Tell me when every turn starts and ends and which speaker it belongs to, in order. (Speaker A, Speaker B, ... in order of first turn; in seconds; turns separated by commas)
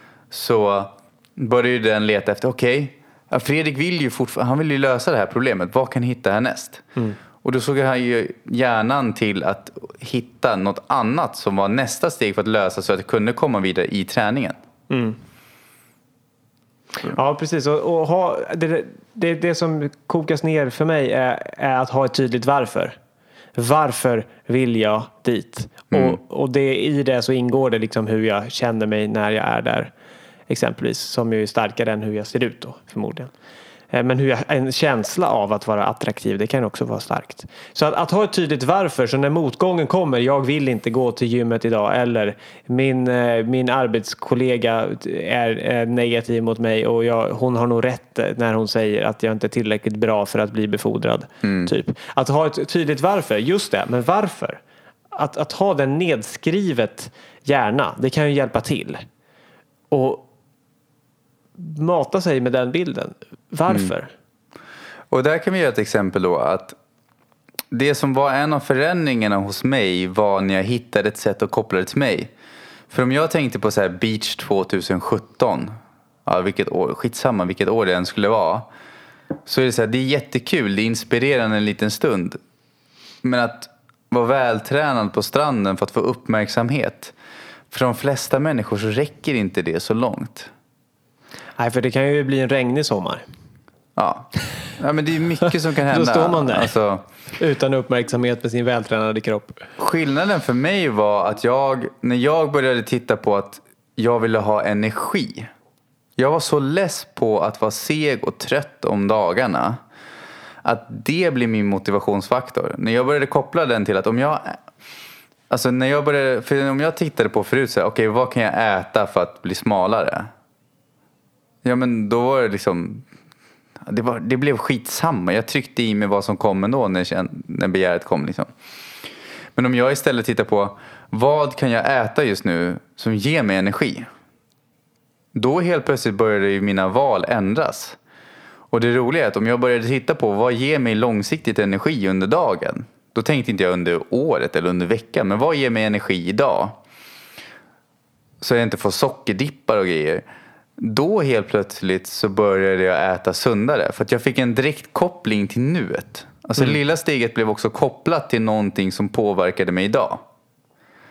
Speaker A: 0.3-6.8, Speaker A: 7.4-14.6, Speaker B: 14.9-15.2, Speaker B: 17.0-23.0, Speaker B: 23.6-29.9, Speaker A: 25.9-26.2, Speaker B: 30.5-33.3, Speaker B: 33.9-54.6, Speaker A: 51.4-51.7, Speaker B: 55.1-59.0, Speaker B: 59.9-60.3, Speaker B: 61.6-64.1, Speaker A: 65.1-66.8, Speaker A: 67.7-72.3, Speaker A: 72.9-75.7, Speaker A: 76.3-78.7, Speaker A: 79.5-82.4, Speaker A: 83.2-87.1, Speaker A: 87.7-90.5, Speaker B: 91.6-93.2, Speaker A: 94.0-97.0, Speaker B: 95.9-96.7, Speaker B: 97.4-99.6, Speaker A: 99.8-105.5, Speaker A: 106.2-109.8, Speaker A: 110.6-114.6, Speaker A: 115.5-120.3, Speaker A: 121.6-123.0, Speaker A: 123.9-128.5, Speaker A: 129.6-134.1, Speaker A: 135.3-138.0, Speaker A: 138.7-146.8, Speaker A: 148.4-150.2, Speaker A: 150.8-160.2